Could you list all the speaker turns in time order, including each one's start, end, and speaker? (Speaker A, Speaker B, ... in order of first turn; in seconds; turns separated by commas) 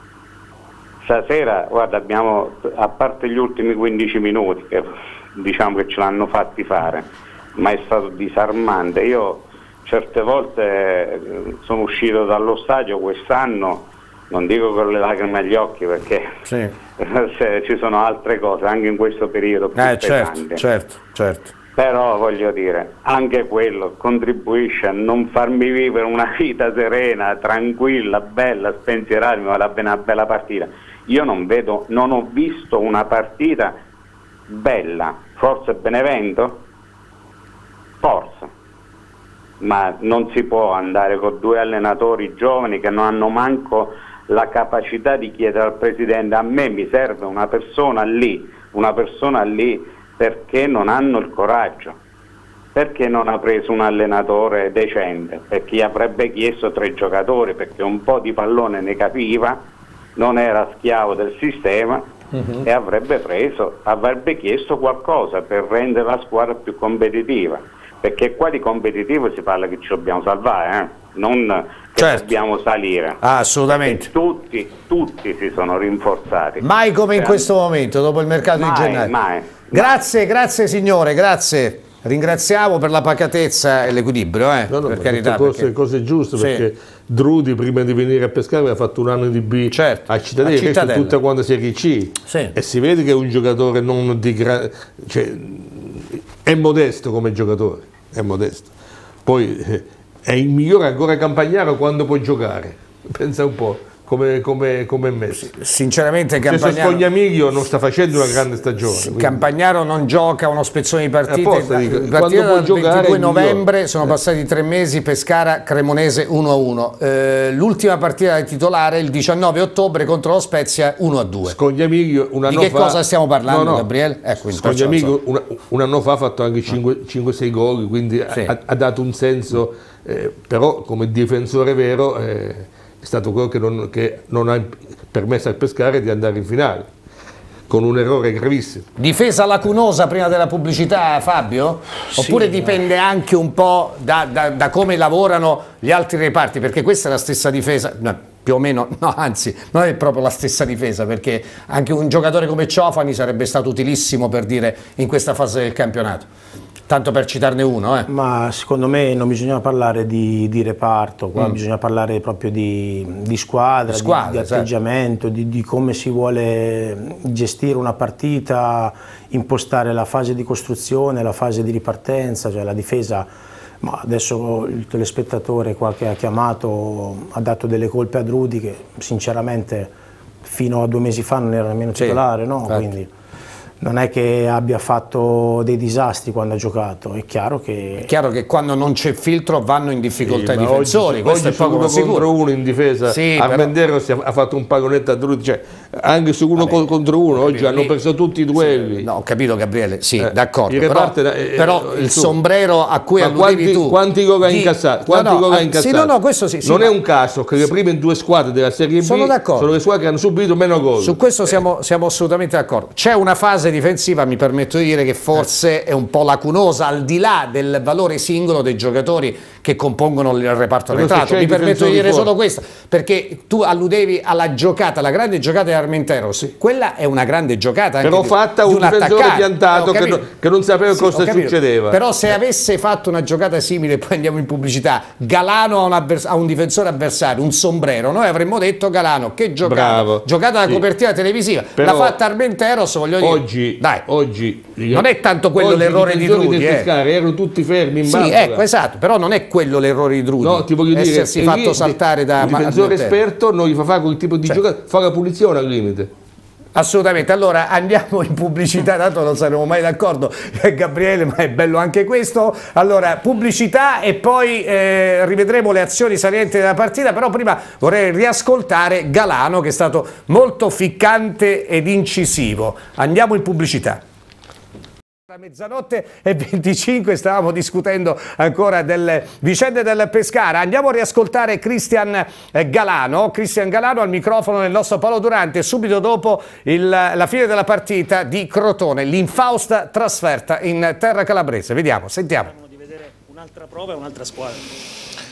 Speaker A: 1.0-16.3, Speaker A: 17.0-20.6, Speaker B: 19.8-21.5, Speaker A: 21.8-33.7, Speaker A: 34.5-36.6, Speaker A: 38.0-38.5, Speaker A: 39.6-52.0, Speaker A: 52.7-59.6, Speaker A: 60.1-62.0, Speaker A: 62.6-73.2, Speaker B: 72.0-72.3, Speaker B: 73.2-74.1, Speaker A: 73.7-76.6, Speaker B: 76.6-79.1, Speaker A: 77.1-77.5, Speaker A: 78.5-79.9, Speaker B: 79.7-85.7, Speaker C: 84.7-98.7, Speaker B: 86.4-86.6, Speaker B: 89.7-91.1, Speaker B: 92.3-92.5, Speaker C: 99.2-105.5, Speaker B: 105.3-107.0, Speaker C: 106.5-109.4, Speaker B: 108.9-121.5, Speaker C: 111.3-114.2, Speaker C: 121.5-123.9, Speaker B: 122.5-125.1, Speaker C: 124.5-136.9, Speaker C: 137.7-138.9, Speaker B: 139.0-156.3, Speaker D: 142.1-142.8, Speaker B: 156.9-158.1, Speaker D: 158.1-173.3, Speaker B: 163.9-164.7, Speaker D: 173.8-183.1, Speaker D: 183.8-188.1, Speaker B: 188.0-192.2, Speaker C: 190.2-199.1, Speaker B: 193.1-193.7, Speaker B: 196.6-197.9, Speaker B: 198.6-206.9, Speaker C: 200.2-202.3, Speaker C: 203.2-211.2, Speaker B: 209.0-209.7, Speaker B: 211.0-230.2, Speaker C: 220.9-222.3, Speaker C: 228.0-232.0, Speaker B: 230.9-244.0, Speaker C: 239.6-240.8, Speaker C: 241.8-242.2, Speaker C: 243.2-248.6, Speaker B: 244.9-246.9, Speaker B: 248.0-253.2, Speaker C: 250.4-256.1, Speaker B: 256.7-274.0, Speaker B: 275.3-292.5, Speaker E: 292.4-294.7